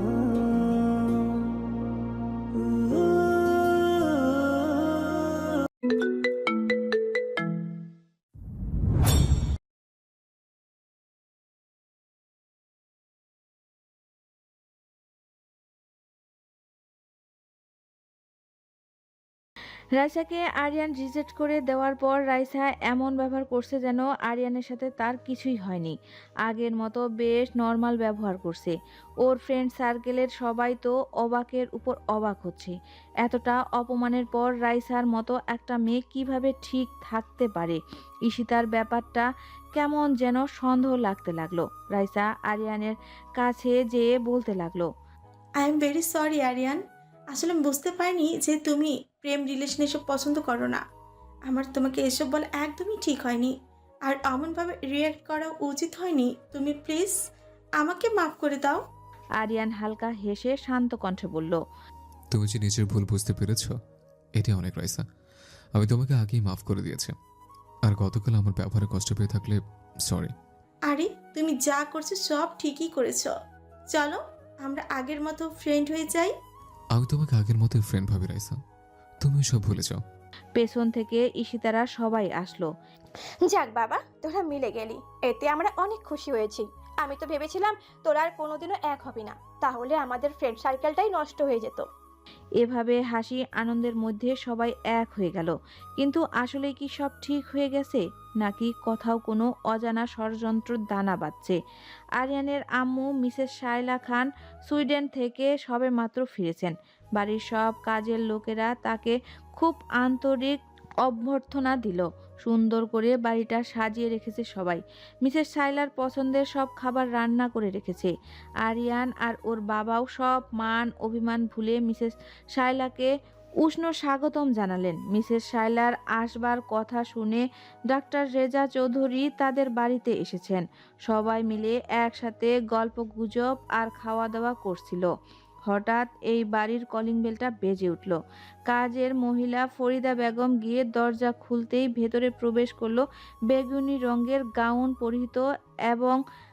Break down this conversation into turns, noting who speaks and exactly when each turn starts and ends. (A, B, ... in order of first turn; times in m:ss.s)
0:20.0-0:25.9 A
0:26.4-0:44.9 A
0:45.6-0:46.8 B
0:47.3-0:50.8 B
0:51.5-0:53.5 B
0:54.0-0:57.2 B
0:57.8-0:58.8 B
0:59.4-1:01.6 A
1:02.3-1:03.7 C
1:04.4-1:05.0 C
1:05.8-1:07.1 C
1:07.8-1:10.3 C
1:10.9-1:13.3 B
1:13.9-1:16.3 B
1:16.9-1:18.6 C
1:19.2-1:20.0 C
1:20.6-1:22.7 A
1:23.4-1:31.9 D
1:32.6-1:41.6 A
1:42.2-1:58.1 A
1:58.6-2:03.1 A
2:03.6-2:15.1 A
2:15.7-2:26.2 A